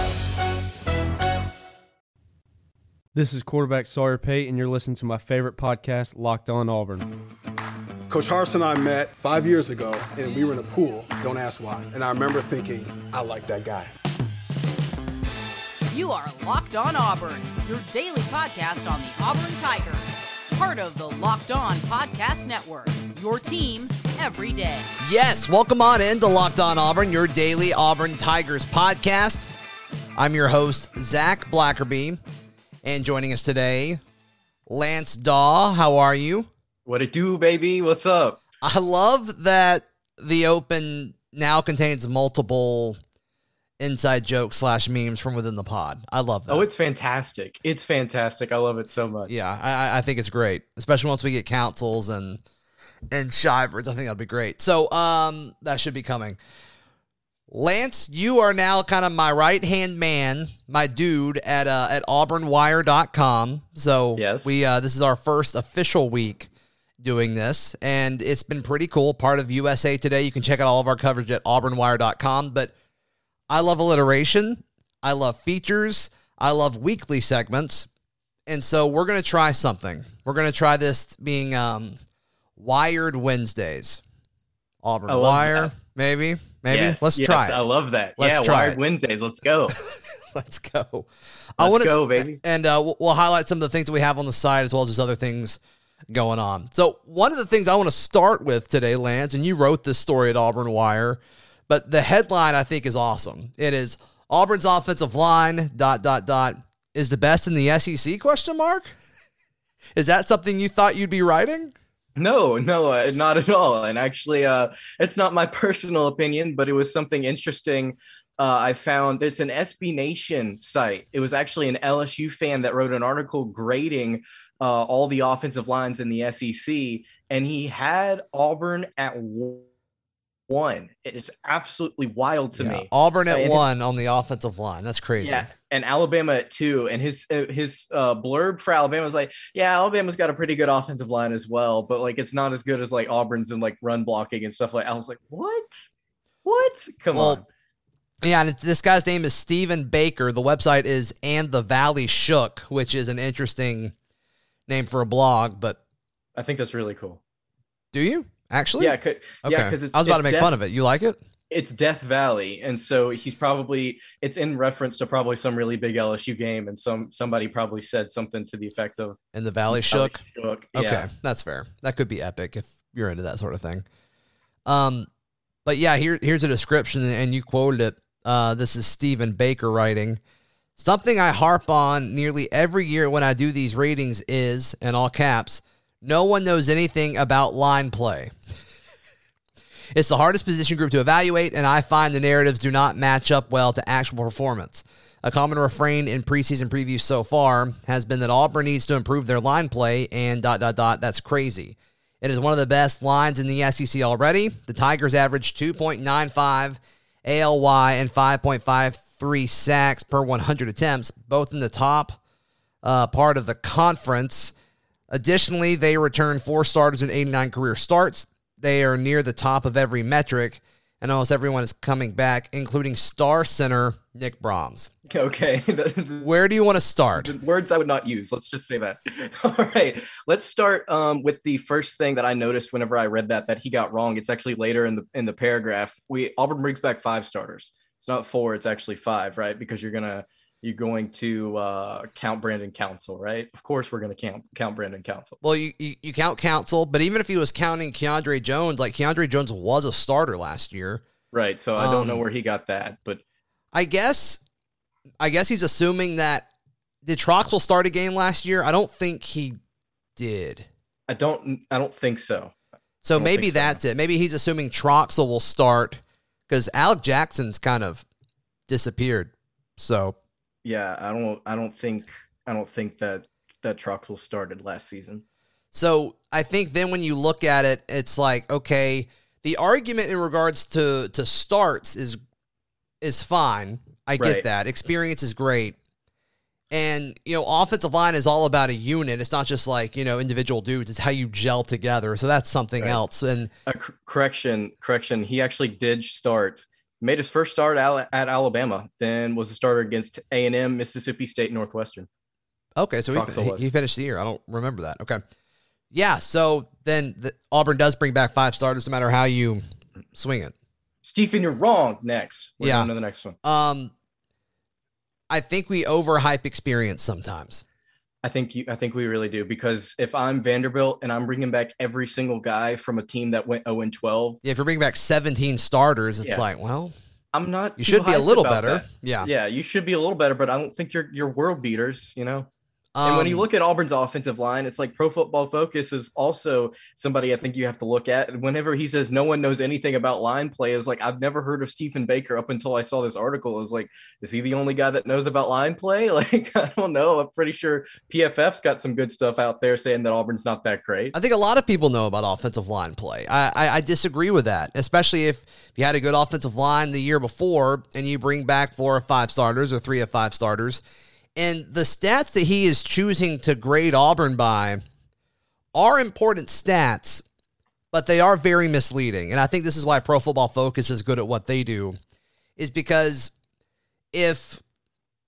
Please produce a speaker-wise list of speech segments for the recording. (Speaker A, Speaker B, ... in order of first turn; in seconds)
Speaker A: 3.1-7.1
Speaker B: 8.1-13.9
Speaker C: 15.9-24.9
Speaker D: 25.0-29.5, 30.2-32.2, 32.8-34.0, 34.7-36.5, 38.6-43.0, 43.8-46.7, 49.3-52.4, 53.1-56.4, 57.5-72.7, 73.5-77.9, 78.5-82.0, 82.6-84.0, 84.8-87.6, 88.2-88.8, 89.8-108.9, 110.0-111.7, 132.6-135.5, 147.1-147.4, 148.2-153.9, 154.7-155.8, 157.9-161.2, 169.3-170.2, 170.8-173.8, 174.7-175.1, 175.7-180.2, 180.8-188.3, 189.9-212.2, 212.8-214.5, 215.1-224.9, 226.2-227.3, 245.4-251.0, 251.8-252.2, 253.7-254.4, 255.2-256.5, 257.0-259.6, 260.2-260.7, 263.0-268.1, 268.7-270.2, 275.7-282.2, 283.0-285.8, 286.7-293.5, 302.8-305.2, 305.9-309.6, 310.1-310.5, 312.6-312.9, 313.4-313.9, 315.3-317.6, 324.4-326.9, 327.8-329.3, 332.9-333.5, 351.1-360.8, 361.4-364.8, 365.7-367.2, 367.9-372.0, 372.6-373.3, 374.1-374.6
Speaker E: 36.9-38.4, 46.5-49.3, 64.2-64.5, 85.1-85.7, 86.7-89.8, 91.6-92.4, 112.2-129.7, 130.5-133.6, 135.2-145.8, 146.4-147.4, 156.3-157.2, 158.8-160.5, 161.5-171.1, 225.1-226.3, 227.2-245.4, 251.3-253.2, 261.1-262.5, 263.1-263.8, 270.6-275.2, 284.2-284.4, 293.7-302.1, 303.1-303.7, 311.0-313.4, 318.2-324.4, 327.3-332.5, 333.0-351.1